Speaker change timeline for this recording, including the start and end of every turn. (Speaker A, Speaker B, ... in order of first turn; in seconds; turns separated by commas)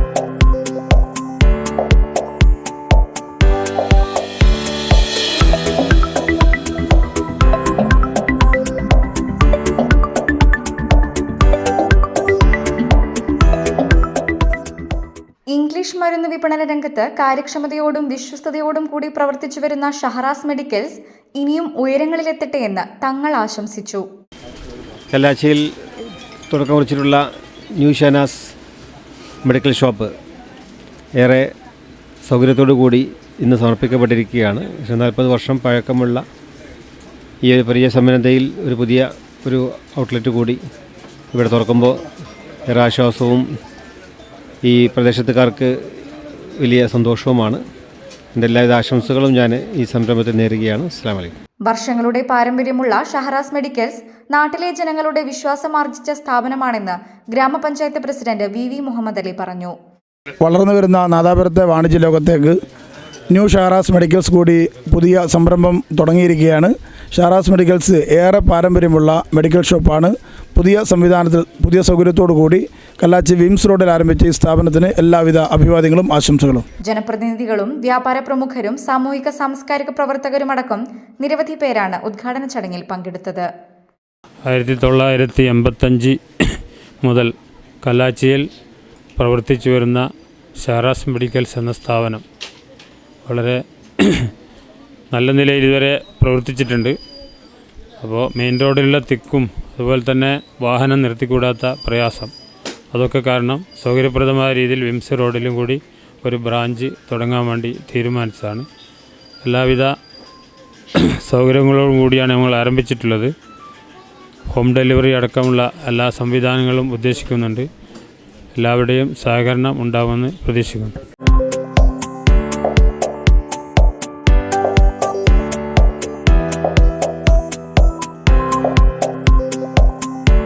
Speaker A: 15.5-24.1, Speaker B: 25.1-25.7, Speaker B: 26.5-28.5, Speaker B: 29.4-30.1, Speaker B: 31.1-31.5, Speaker B: 32.2-36.2, Speaker B: 37.4-40.6, Speaker B: 41.3-42.0, Speaker B: 42.6-43.5, Speaker B: 44.6-46.0, Speaker B: 46.6-47.6, Speaker B: 48.3-51.3, Speaker A: 51.6-59.8, Speaker C: 60.4-62.6, Speaker C: 63.3-76.6, Speaker A: 76.8-83.5, Speaker D: 84.4-87.3, Speaker D: 87.8-88.5, Speaker D: 89.2-90.0, Speaker D: 90.6-92.2, Speaker D: 93.2-94.3, Speaker D: 95.1-96.9, Speaker D: 98.0-102.3, Speaker D: 102.9-108.7, Speaker D: 109.4-109.9, Speaker D: 111.0-113.3, Speaker D: 114.5-117.7, Speaker D: 118.5-120.9